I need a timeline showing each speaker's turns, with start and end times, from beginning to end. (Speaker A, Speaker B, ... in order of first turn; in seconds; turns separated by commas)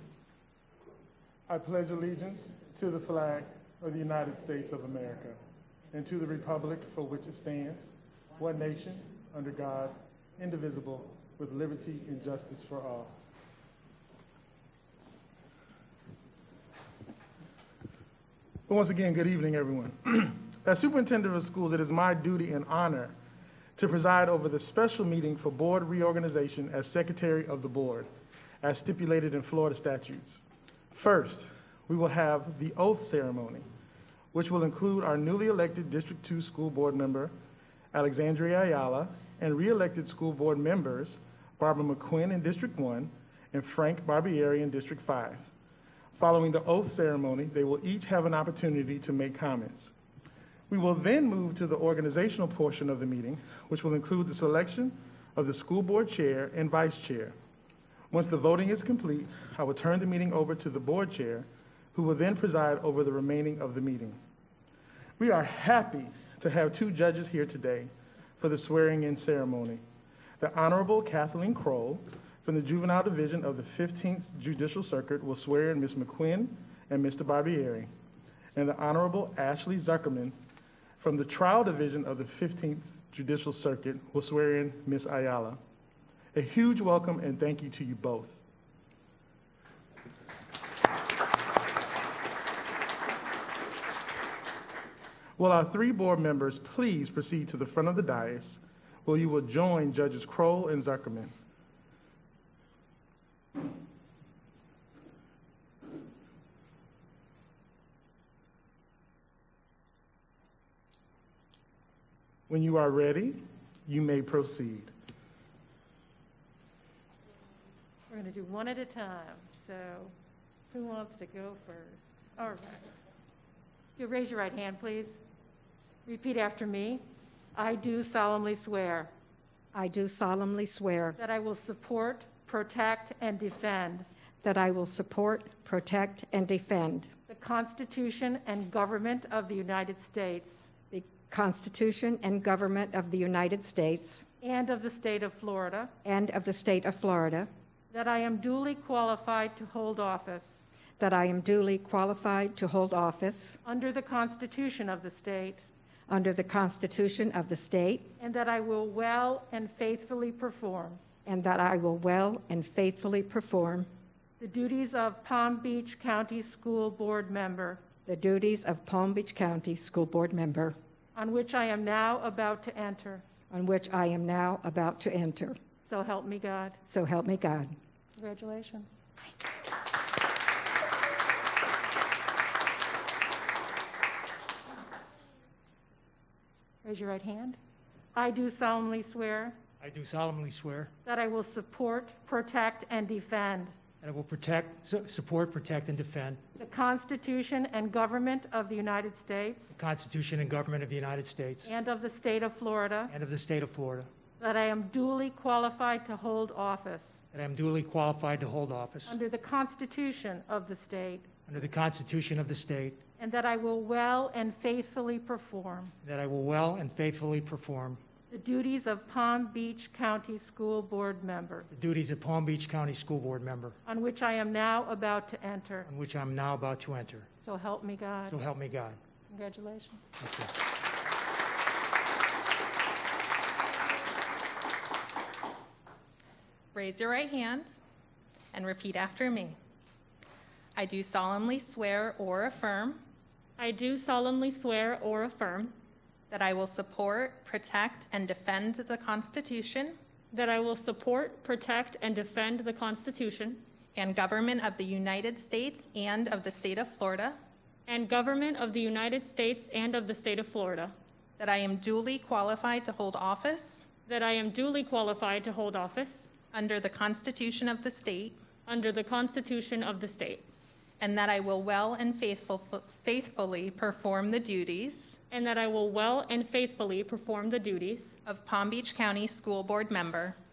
Speaker A: 1.5-5.4, Speaker A: 5.9-13.1, Speaker A: 18.7-23.1, Speaker A: 23.8-28.1, Speaker A: 28.6-33.6, Speaker A: 34.3-37.3, Speaker A: 37.9-45.5, Speaker A: 46.1-49.9, Speaker A: 50.7-57.3, Speaker A: 58.1-64.2, Speaker A: 65.2-69.8, Speaker A: 70.4-77.9, Speaker A: 78.5-80.3, Speaker A: 81.0-85.6, Speaker A: 86.3-88.4, Speaker A: 95.4-101.3, Speaker A: 112.5-114.9, Speaker B: 118.1-120.1, Speaker B: 120.7-122.8, Speaker B: 124.0-125.2, Speaker B: 126.0-127.0, Speaker B: 127.5-129.1, Speaker C: 129.7-131.2, Speaker B: 131.2-134.1, Speaker C: 134.4-137.1, Speaker B: 137.3-140.7, Speaker C: 140.9-144.2, Speaker B: 144.4-145.9, Speaker C: 146.0-147.5, Speaker B: 147.9-150.6, Speaker C: 151.0-153.6, Speaker B: 153.6-155.6, Speaker C: 156.1-158.1, Speaker B: 158.2-161.0, Speaker C: 161.2-163.9, Speaker B: 164.4-167.8, Speaker C: 168.1-170.7, Speaker B: 171.1-173.2, Speaker C: 173.5-175.6, Speaker B: 175.8-176.8, Speaker C: 176.8-177.8, Speaker B: 178.2-178.9, Speaker B: 186.8-187.6, Speaker B: 188.1-189.6, Speaker D: 189.8-190.9, Speaker B: 191.1-193.8, Speaker D: 194.0-196.4, Speaker B: 196.6-199.7, Speaker D: 199.7-201.7, Speaker B: 201.7-203.1, Speaker D: 203.1-204.1, Speaker B: 204.4-207.2, Speaker D: 207.3-209.2, Speaker B: 209.1-211.3, Speaker D: 211.5-213.0, Speaker B: 213.2-215.9, Speaker D: 216.0-218.0, Speaker B: 218.3-221.7, Speaker D: 221.7-223.8, Speaker B: 223.8-225.9, Speaker D: 225.9-227.3, Speaker B: 227.4-228.3, Speaker D: 228.3-229.0, Speaker B: 229.3-230.1, Speaker D: 230.2-230.5, Speaker E: 236.7-237.8, Speaker E: 238.5-239.6, Speaker E: 240.8-243.0, Speaker F: 243.6-245.7, Speaker E: 246.3-249.9, Speaker F: 250.3-253.6, Speaker E: 253.9-257.4, Speaker F: 257.9-260.9, Speaker E: 261.4-263.9, Speaker F: 264.1-266.3, Speaker E: 266.5-268.4, Speaker F: 268.6-270.4, Speaker E: 271.0-275.2, Speaker F: 275.3-278.2, Speaker E: 278.2-280.4